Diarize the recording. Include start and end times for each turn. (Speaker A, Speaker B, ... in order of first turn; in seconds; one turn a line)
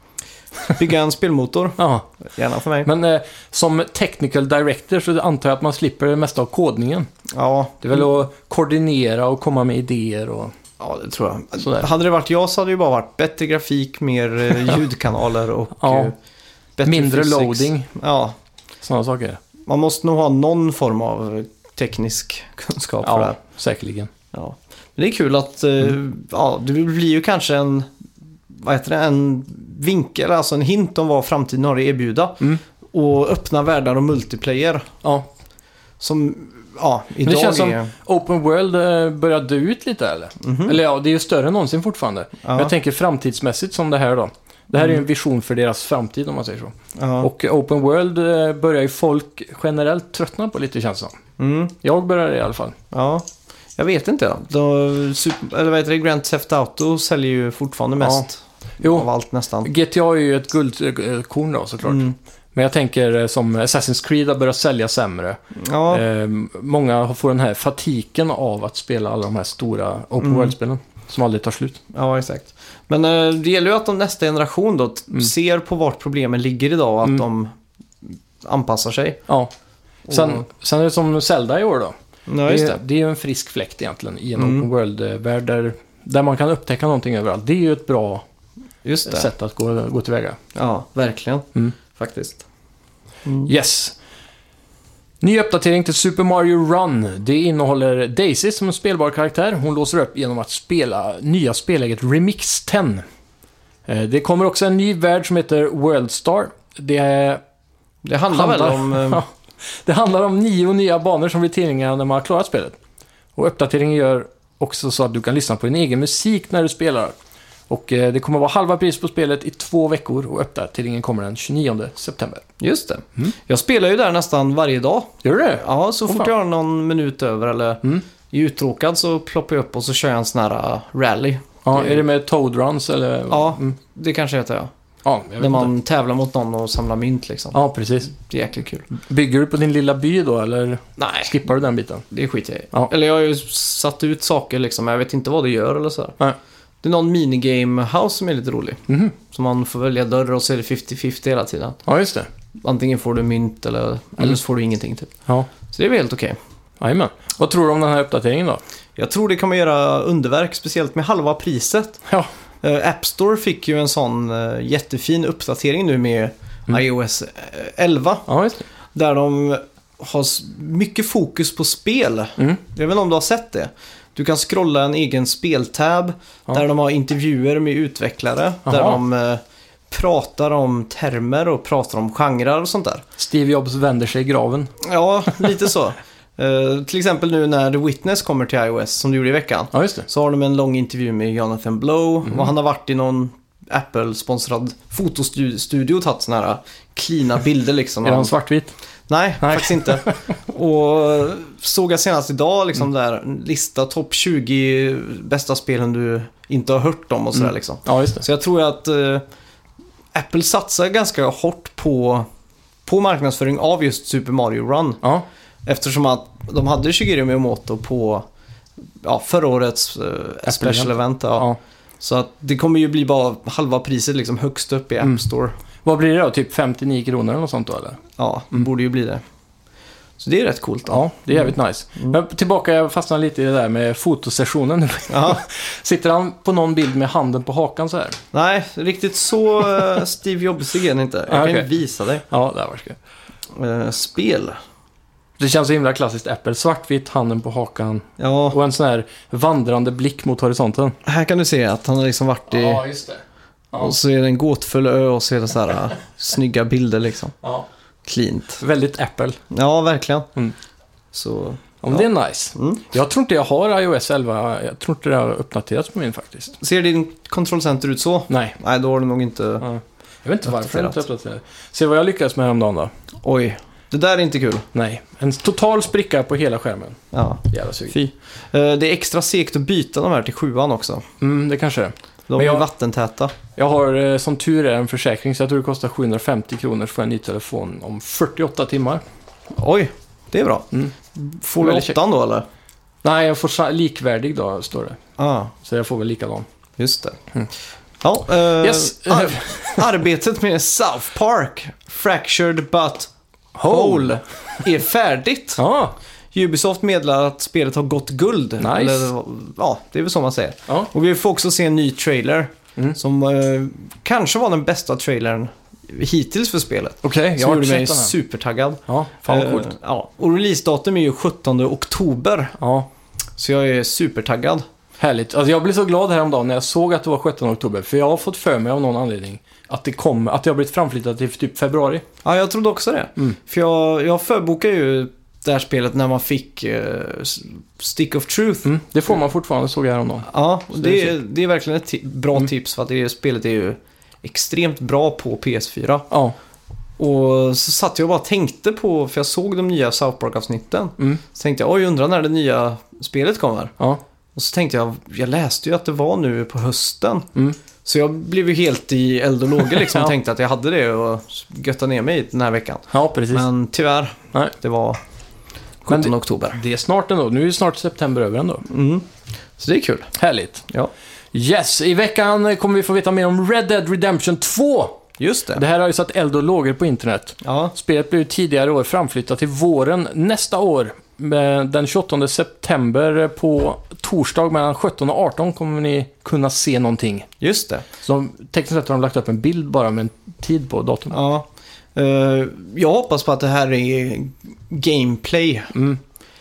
Speaker A: 0.7-2.9
Speaker B: 1.8-2.1
Speaker B: 2.8-7.1
Speaker A: 7.3-8.1
Speaker B: 7.8-10.5
Speaker A: 10.8-16.1
Speaker B: 11.6-11.9
Speaker B: 15.8-16.1
Speaker A: 16.8-18.4
Speaker B: 16.9-17.9
Speaker B: 18.8-19.4
Speaker A: 19.7-23.4
Speaker B: 23.0-24.1
Speaker A: 24.3-27.9
Speaker A: 28.5-34.9
Speaker A: 36.0-37.9
Speaker B: 37.2-51.2
Speaker A: 40.4-40.8
Speaker A: 42.4-42.7
Speaker A: 47.0-47.3
Speaker A: 51.4-51.7
Speaker B: 51.8-52.8
Speaker A: 52.9-53.2
Speaker A: 53.8-59.7
Speaker B: 58.0-58.3
Speaker B: 58.8-59.1
Speaker B: 59.6-71.8
Speaker A: 61.9-62.1
Speaker A: 65.5-66.1
Speaker A: 70.2-70.5
Speaker A: 71.9-79.2
Speaker A: 80.1-80.4
Speaker B: 80.1-81.9
Speaker A: 82.3-82.8
Speaker B: 82.5-88.2
Speaker A: 84.4-84.7
Speaker A: 88.8-89.3
Speaker B: 89.1-90.4
Speaker A: 90.5-92.4
Speaker B: 93.5-94.0
Speaker B: 95.2-103.0
Speaker B: 103.9-107.4
Speaker A: 108.0-109.2
Speaker B: 108.3-112.8
Speaker B: 113.4-117.1
Speaker B: 117.7-122.5
Speaker A: 122.6-132.0
Speaker B: 125.2-126.3
Speaker B: 131.7-133.8
Speaker A: 133.3-134.7
Speaker B: 135.1-135.7
Speaker A: 135.4-137.6
Speaker B: 137.5-138.1
Speaker A: 138.1-138.9
Speaker B: 138.9-142.1
Speaker A: 141.0-141.4
Speaker A: 142.1-146.2
Speaker A: 146.8-151.8
Speaker B: 148.9-149.2
Speaker B: 151.9-152.3
Speaker A: 152.6-155.1
Speaker A: 155.7-156.4
Speaker B: 156.8-158.6
Speaker A: 159.0-162.0
Speaker A: 162.6-168.3
Speaker B: 168.3-168.6
Speaker A: 168.9-183.1
Speaker B: 178.7-179.0
Speaker B: 183.2-184.7
Speaker A: 184.8-198.3
Speaker B: 189.7-190.1
Speaker B: 192.2-192.5
Speaker B: 198.0-198.7
Speaker A: 199.1-209.2
Speaker B: 199.4-200.2
Speaker B: 207.4-208.2
Speaker A: 210.1-212.3
Speaker A: 212.9-215.0
Speaker A: 215.7-218.2
Speaker A: 219.0-221.5
Speaker B: 220.4-221.6
Speaker A: 222.0-225.5
Speaker B: 225.8-228.0
Speaker A: 228.2-229.2
Speaker A: 230.2-232.2
Speaker B: 230.9-238.2
Speaker A: 235.1-235.4
Speaker A: 238.3-242.2
Speaker B: 241.3-241.7
Speaker B: 242.3-243.0
Speaker A: 243.6-244.6
Speaker B: 245.4-251.0
Speaker A: 248.2-248.6
Speaker A: 251.1-252.8
Speaker B: 252.5-253.2
Speaker A: 253.8-257.3
Speaker B: 257.4-257.7
Speaker A: 258.1-258.6
Speaker B: 258.6-259.4
Speaker A: 259.5-260.3
Speaker A: 261.1-262.9
Speaker B: 261.8-266.6
Speaker A: 266.6-269.7
Speaker B: 268.3-268.6
Speaker B: 269.6-272.9
Speaker A: 270.4-271.0
Speaker A: 273.2-274.6
Speaker B: 274.7-277.9
Speaker A: 277.1-281.1
Speaker B: 281.2-282.6
Speaker A: 282.3-283.4
Speaker B: 283.5-289.0
Speaker A: 289.5-292.5
Speaker B: 291.6-292.0
Speaker B: 293.0-295.0
Speaker A: 295.2-295.5
Speaker B: 295.6-296.5
Speaker A: 296.8-297.2
Speaker A: 298.0-303.1
Speaker B: 298.6-299.9
Speaker B: 303.6-304.2
Speaker A: 303.6-305.6
Speaker B: 305.6-306.0
Speaker A: 306.3-322.6
Speaker B: 308.6-309.1
Speaker B: 317.0-318.1
Speaker B: 318.9-319.7
Speaker B: 322.6-322.9
Speaker A: 323.4-324.6
Speaker B: 325.0-332.0
Speaker A: 332.2-338.7
Speaker B: 338.6-341.1
Speaker A: 340.3-346.1
Speaker A: 347.0-353.8
Speaker A: 354.4-357.3
Speaker A: 357.9-365.0
Speaker B: 359.6-360.1
Speaker B: 362.9-363.5
Speaker A: 365.9-366.6
Speaker B: 365.9-368.6
Speaker A: 368.6-369.1
Speaker A: 369.6-370.1
Speaker B: 370.1-370.6
Speaker B: 371.3-387.3
Speaker A: 375.2-375.6
Speaker A: 377.4-377.7
Speaker A: 387.4-387.9
Speaker B: 388.0-391.1
Speaker A: 391.1-395.7
Speaker B: 395.7-396.0